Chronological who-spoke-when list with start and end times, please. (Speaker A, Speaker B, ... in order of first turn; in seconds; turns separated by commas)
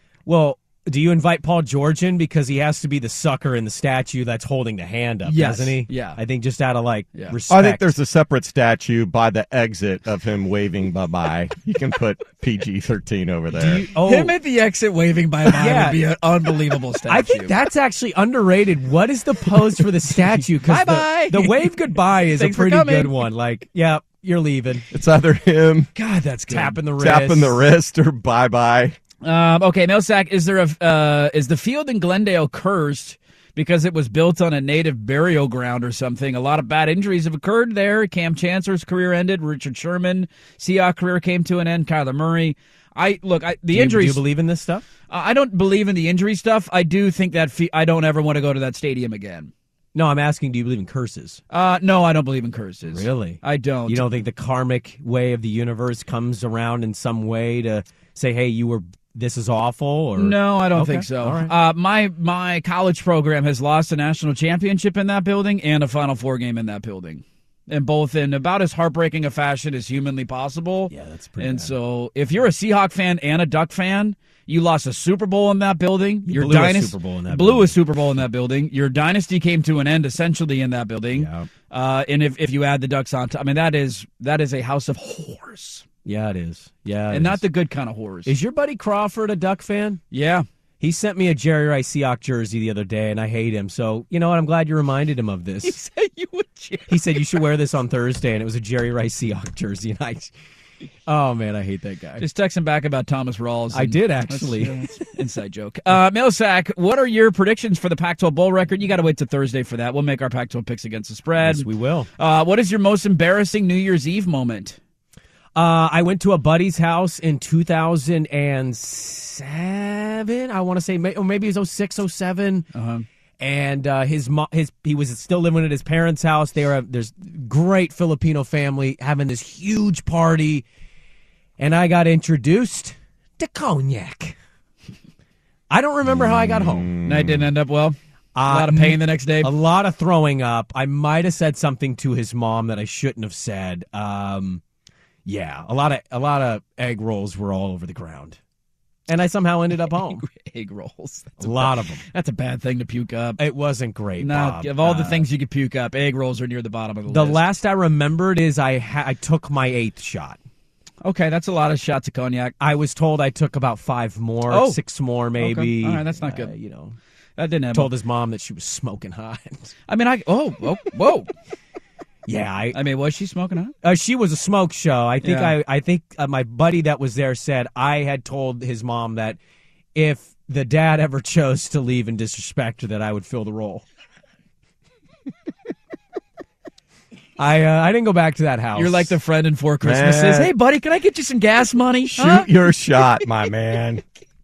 Speaker A: 0.3-8.0, Speaker B: 5.2-6.2, Speaker C: 7.5-13.9, Speaker A: 13.5-14.3, Speaker B: 14.0-17.5, Speaker A: 15.5-16.0, Speaker A: 17.1-24.9, Speaker B: 20.6-23.3, Speaker C: 24.9-25.9, Speaker B: 26.0-26.8, Speaker A: 26.5-27.7, Speaker C: 27.0-29.0, Speaker B: 29.2-44.2, Speaker A: 43.7-44.9, Speaker B: 45.1-49.5, Speaker A: 50.0-51.4, Speaker B: 51.5-54.1, Speaker A: 52.8-61.5, Speaker B: 60.2-85.8, Speaker A: 70.9-71.7, Speaker A: 76.3-77.8, Speaker A: 81.2-81.5, Speaker A: 86.0-87.4, Speaker B: 87.1-88.3, Speaker A: 88.3-90.0, Speaker B: 90.1-90.5, Speaker A: 90.8-95.8, Speaker B: 95.6-97.4, Speaker A: 96.9-100.3, Speaker A: 101.1-102.3, Speaker B: 102.2-111.7, Speaker A: 103.7-104.8, Speaker A: 111.4-112.1, Speaker B: 112.2-114.8, Speaker A: 115.5-122.7, Speaker B: 122.7-123.1, Speaker A: 123.4-130.7, Speaker A: 131.6-134.4, Speaker A: 135.7-136.9, Speaker C: 136.2-137.5, Speaker B: 137.0-138.0, Speaker A: 138.3-144.6, Speaker B: 138.5-139.5, Speaker A: 145.3-148.4, Speaker A: 149.1-150.2, Speaker B: 149.9-153.4, Speaker A: 151.4-152.0, Speaker A: 153.4-155.3, Speaker B: 154.2-157.4, Speaker A: 157.1-160.4, Speaker B: 161.0-162.5, Speaker A: 162.6-167.0, Speaker B: 164.5-164.8, Speaker B: 165.4-166.5, Speaker B: 167.4-167.9, Speaker A: 167.7-169.7, Speaker B: 169.9-171.3, Speaker A: 172.3-172.8, Speaker B: 172.7-173.7, Speaker A: 173.8-179.4, Speaker B: 175.2-175.6, Speaker A: 179.9-183.8, Speaker A: 187.4-189.2, Speaker B: 188.8-193.2, Speaker C: 189.8-190.5, Speaker C: 192.1-194.0